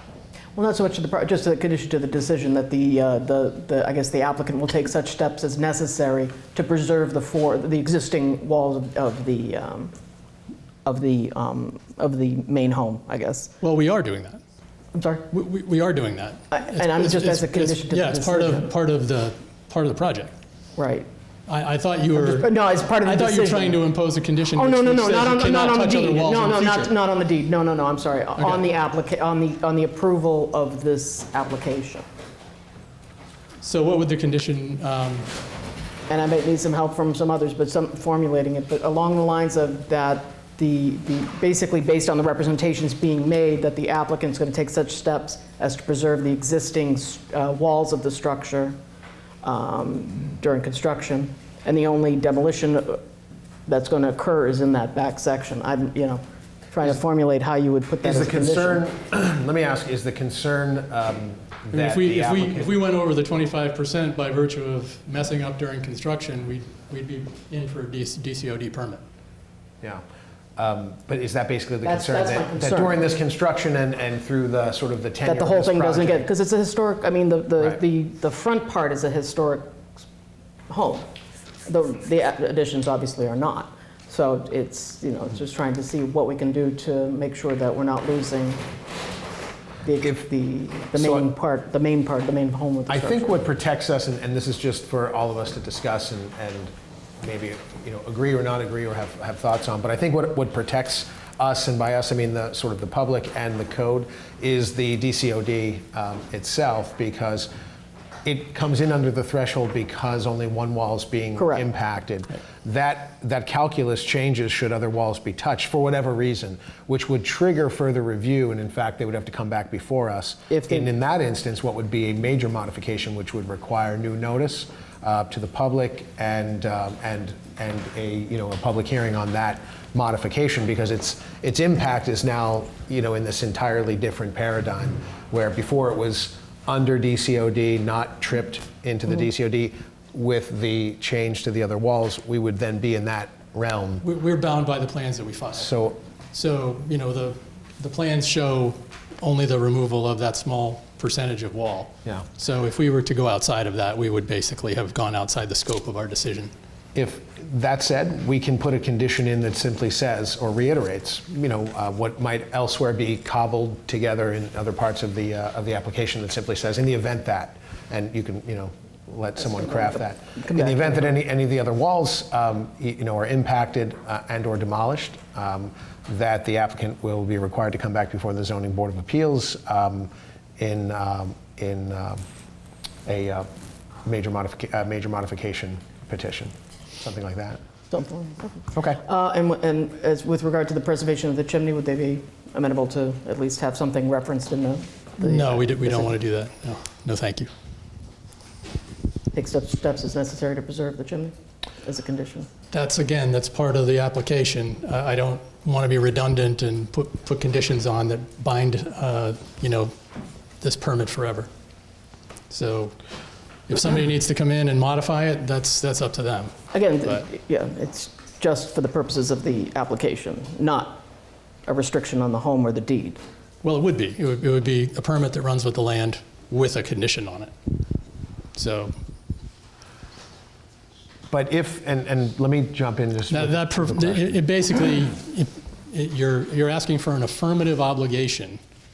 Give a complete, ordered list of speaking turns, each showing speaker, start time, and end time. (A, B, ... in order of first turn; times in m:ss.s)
0:00.6-0:09.9 A
0:10.8-0:13.6 A
0:13.6-0:14.4 B
0:14.9-0:15.3 A
0:15.3-0:20.3 B
0:16.5-0:18.7 A
0:20.8-0:21.1 A
0:21.5-0:22.5 B
0:22.2-0:23.8 A
0:23.0-0:26.9 B
0:24.6-0:32.0 A
0:28.4-0:28.6 B
0:33.6-0:35.3 B
0:36.1-0:48.8 A
0:49.4-0:53.0 A
0:53.7-0:58.8 A
0:58.0-1:02.7 C
1:01.7-1:09.0 B
1:10.6-1:16.3 C
1:11.8-1:13.0 A
1:15.2-1:19.9 A
1:20.7-1:21.1 A
1:21.7-1:28.6 A
1:29.8-1:33.4 A
1:30.9-1:31.3 C
1:32.9-1:47.5 C
1:48.2-2:24.0 C
1:51.4-1:51.6 A
2:00.5-2:00.9 A
2:24.0-2:25.7 B
2:25.6-2:26.0 C
2:26.3-2:36.5 B
2:37.0-3:02.2 C
2:50.4-2:51.0 A
3:03.1-3:03.5 C
3:04.0-3:07.6 C
3:07.9-3:16.1 A
3:08.7-3:09.0 C
3:15.2-3:17.5 B
3:19.3-3:22.5 A
3:22.7-3:29.9 B
3:30.6-3:31.5 B
3:32.5-3:33.0 B
3:33.7-3:36.5 B
3:36.7-3:41.0 A
3:41.7-3:43.2 A
3:43.6-3:47.5 B
3:48.6-3:49.0 B
3:51.3-3:54.4 C
3:53.3-3:58.6 B